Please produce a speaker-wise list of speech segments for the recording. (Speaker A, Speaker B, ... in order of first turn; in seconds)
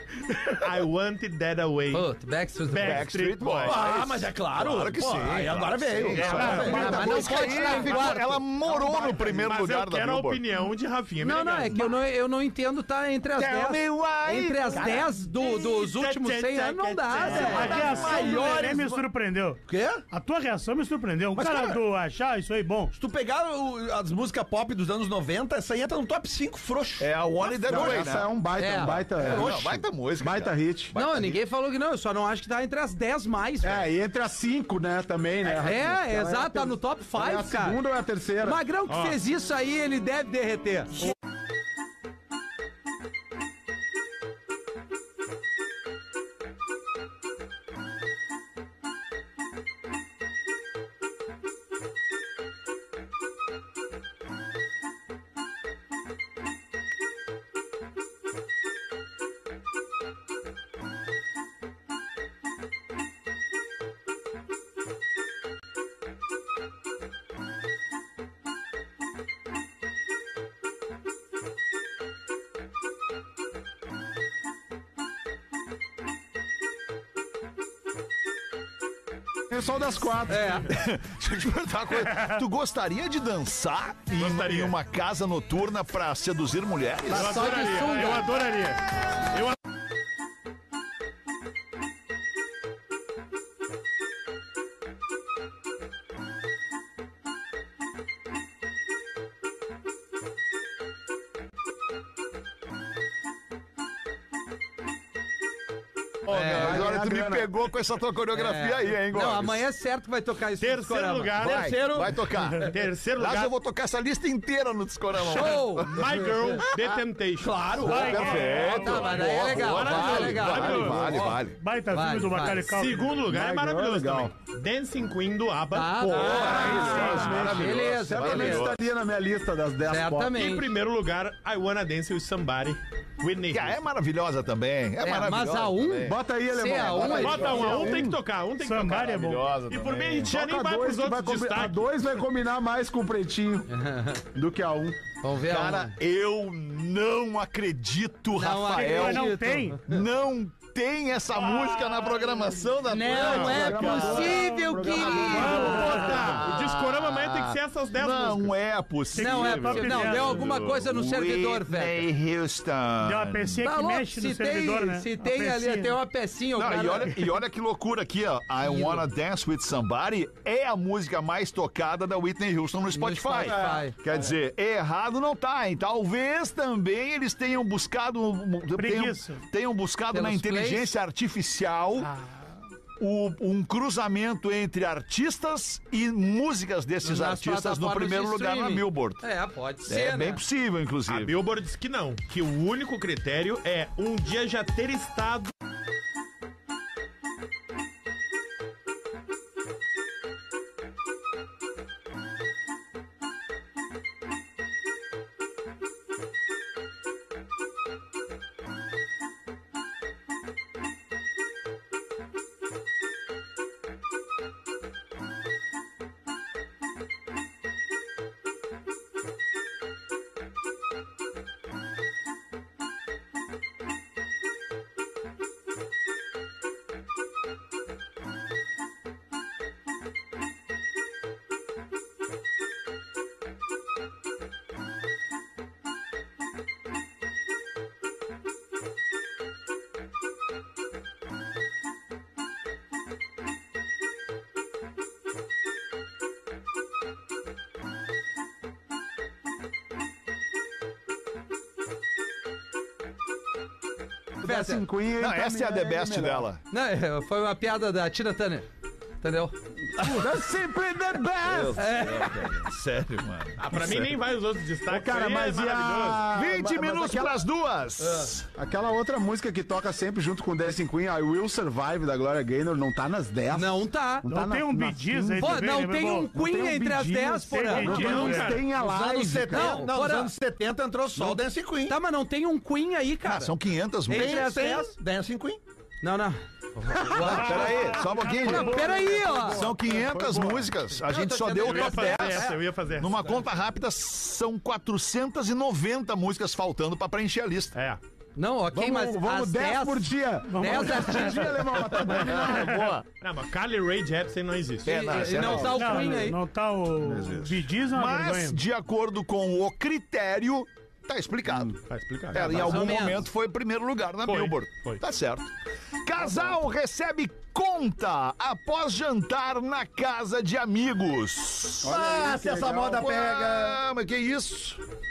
Speaker A: 0.5-2.1, 2.7-3.8, 6.1-6.8, 9.4-11.9, 15.2-18.6, 38.9-39.2, 84.2-84.7, 87.1-89.6, 110.6-111.7, 112.7-113.5, 115.9-118.2, 119.1-121.1, 122.6-127.5, 130.3-133.8, 137.0-141.9, 155.4-158.6, 191.1-195.5, 263.6-266.3, 277.7-278.7, 291.6-293.3, 297.8-298.0, 303.2-305.3, 311.9-312.5, 314.2-315.0
Speaker B: 1.9-3.1, 6.4-8.4, 11.2-17.8, 28.6-29.5, 30.9-33.8, 35.5-37.8, 38.4-41.1, 80.3-80.7, 87.1-88.3, 106.3-106.9, 108.3-112.0, 115.2-116.0, 118.7-121.4, 121.9-122.7, 125.7-128.7, 129.9-130.7, 135.0-137.8, 143.7-144.2, 145.2-146.0, 148.3-150.0, 152.9-156.3, 159.2-162.1, 163.6-167.2, 168.6-169.1, 172.9-173.9, 180.1-180.9, 187.0-190.4, 254.4-254.8, 256.7-258.7, 259.2-259.5, 261.8-262.5, 273.5-274.3, 275.4-278.4, 279.5-280.3, 281.2-283.6, 284.1-284.9, 286.0-289.6, 291.1-292.6, 298.4-301.6, 304.9-306.4, 312.3-313.3
Speaker C: 2.8-10.4, 13.4-14.9, 27.0-28.3, 29.1-31.4, 80.7-87.5, 106.3-109.7, 111.4-116.3, 117.9-121.6, 126.2-128.8, 133.5-136.2, 136.9-137.9, 139.0-140.3, 145.4-163.6, 166.6-182.1, 183.0-189.2, 189.9-191.3, 255.2-256.6, 261.4-264.2, 266.3-268.5, 283.2-284.5, 287.1-288.9, 289.5-297.7, 302.1-303.1, 304.9-306.1, 307.1-311.8, 312.3-315.5, 316.1-322.0, 322.9-324.8
Speaker D: 3.6-9.6, 14.7-15.1, 17.2-19.0, 19.7-20.1, 21.3-21.8, 22.9-28.2, 29.2-29.7, 111.4-112.1, 117.4-118.7, 173.4-174.3, 278.8-282.0, 284.1-285.6, 321.9-323.8
Speaker E: 6.2-7.6, 17.3-22.9, 117.8-119.1, 121.5-123.2, 126.8-127.3, 138.6-139.5, 148.7-149.8, 151.5-152.4, 155.3-156.4, 159.1-160.5, 163.0-166.0, 178.7-179.4, 274.3-276.3, 277.4-278.7, 287.2-289.3, 300.5-301.5, 305.5-308.6
Speaker F: 27.7-30.9, 33.6-38.6, 79.5-80.6, 106.5-107.5, 120.6-121.4, 123.3-124.3, 126.5-130.4, 136.0-138.2, 140.2-143.7, 144.3-145.0, 153.2-156.4, 254.4-256.5, 260.0-261.9, 264.9-267.4, 268.6-275.7, 276.3-279.9, 288.4-290.8, 298.7-302.7, 321.8-323.1